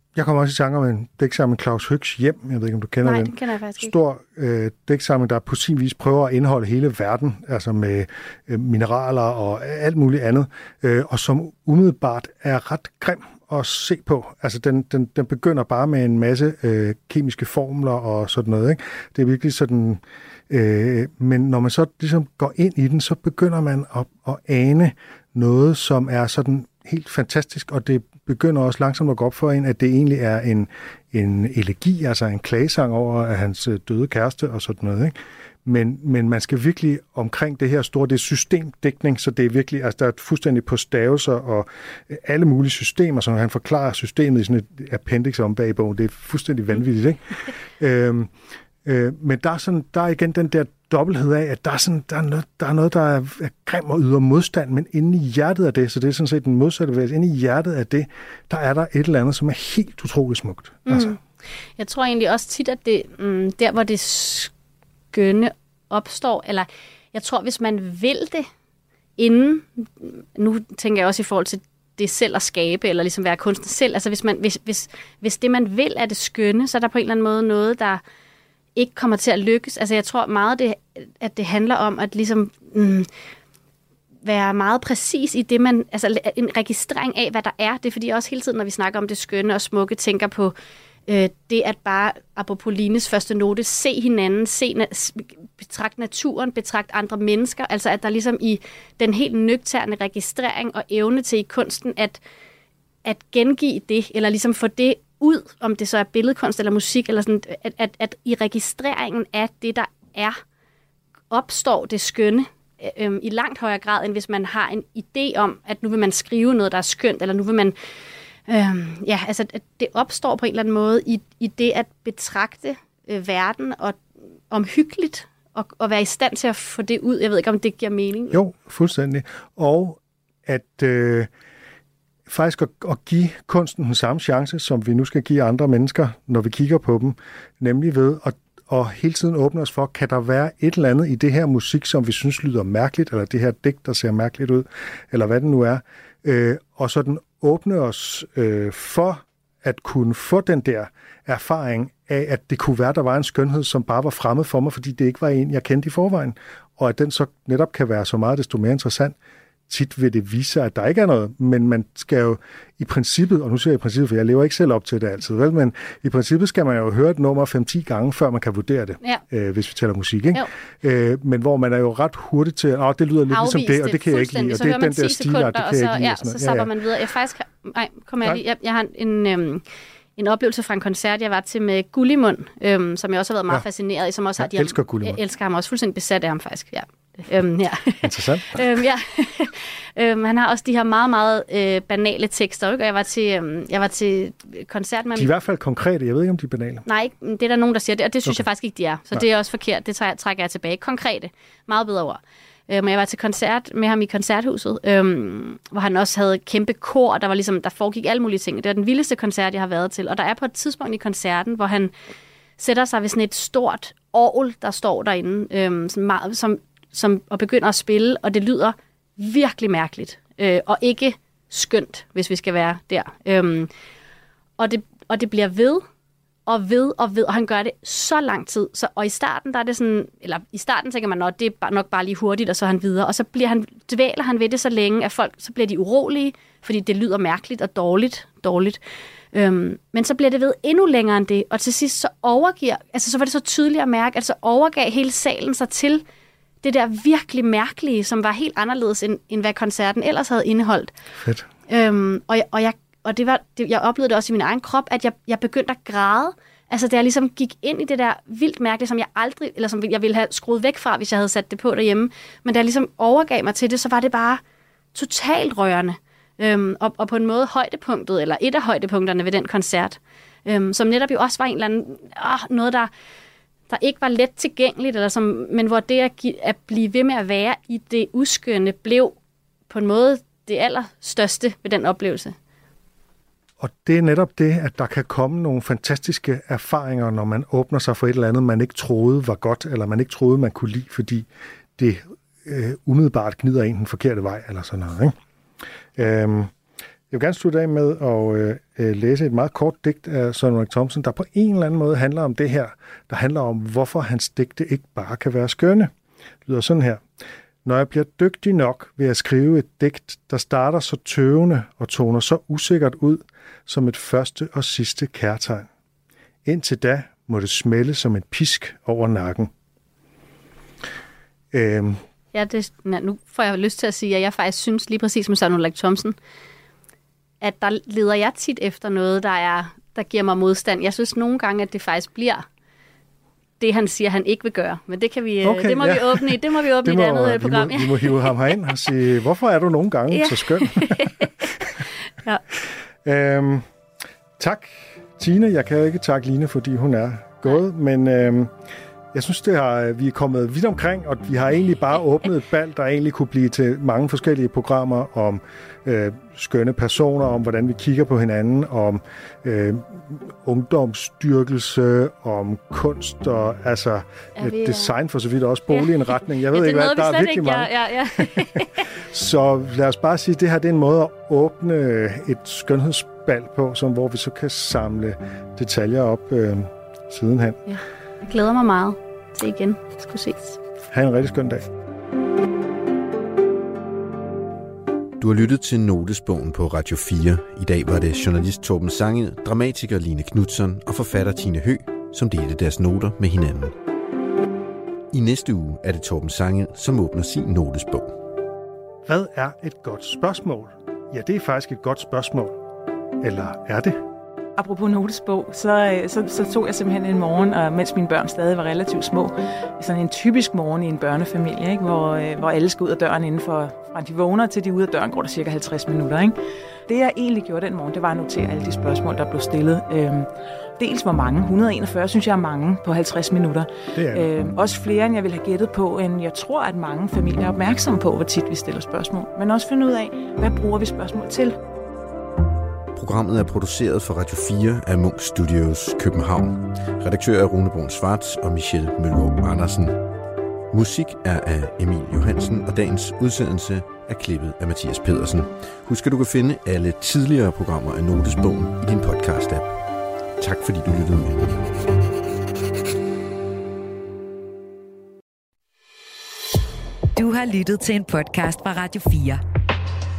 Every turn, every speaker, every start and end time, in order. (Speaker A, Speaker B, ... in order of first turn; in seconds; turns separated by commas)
Speaker A: 0.1-48.3, Speaker B: 3.0-3.9, Speaker A: 48.8-61.2, Speaker B: 60.9-61.2, Speaker B: 61.8-64.5, Speaker B: 65.1-68.5, Speaker B: 69.2-78.0, Speaker B: 78.8-83.1, Speaker B: 84.2-90.5, Speaker B: 91.1-102.2, Speaker B: 103.0-110.4, Speaker B: 111.3-117.8, Speaker B: 118.5-128.4, Speaker A: 128.3-131.3, Speaker A: 132.3-159.2, Speaker A: 159.7-176.7, Speaker B: 173.3-179.6, Speaker B: 180.2-195.3, Speaker A: 184.4-185.2, Speaker A: 188.0-188.7, Speaker A: 195.2-196.9, Speaker B: 196.9-211.9, Speaker B: 212.6-223.7, Speaker B: 224.6-225.8, Speaker B: 226.5-238.8, Speaker B: 239.3-246.0, Speaker B: 246.6-250.9, Speaker A: 251.2-251.5, Speaker B: 251.7-264.4, Speaker B: 264.9-272.9, Speaker B: 273.7-279.1, Speaker B: 279.7-282.4, Speaker A: 283.6-295.1, Speaker A: 296.0-296.5, Speaker A: 297.1-305.9, Speaker A: 306.5-307.0, Speaker A: 307.6-315.7, Speaker A: 316.4-319.5, Speaker A: 321.5-322.0, Speaker B: 322.3-326.2, Speaker B: 327.4-332.4, Speaker B: 333.6-338.3, Speaker A: 335.4-341.7, Speaker B: 340.1-341.5, Speaker B: 342.1-342.4, Speaker A: 342.5-343.6, Speaker A: 344.4-348.5, Speaker A: 349.1-377.6, Speaker B: 364.4-364.9, Speaker B: 365.7-368.9, Speaker B: 377.7-380.6, Speaker A: 380.9-381.7, Speaker C: 385.2-393.7, Speaker C: 395.1-398.2, Speaker A: 399.1-402.6, Speaker A: 403.2-404.0, Speaker D: 404.6-416.3, Speaker D: 416.9-431.6, Speaker A: 424.0-424.3, Speaker C: 432.9-440.0, Speaker C: 440.7-449.8, Speaker C: 450.4-451.7, Speaker E: 457.1-459.4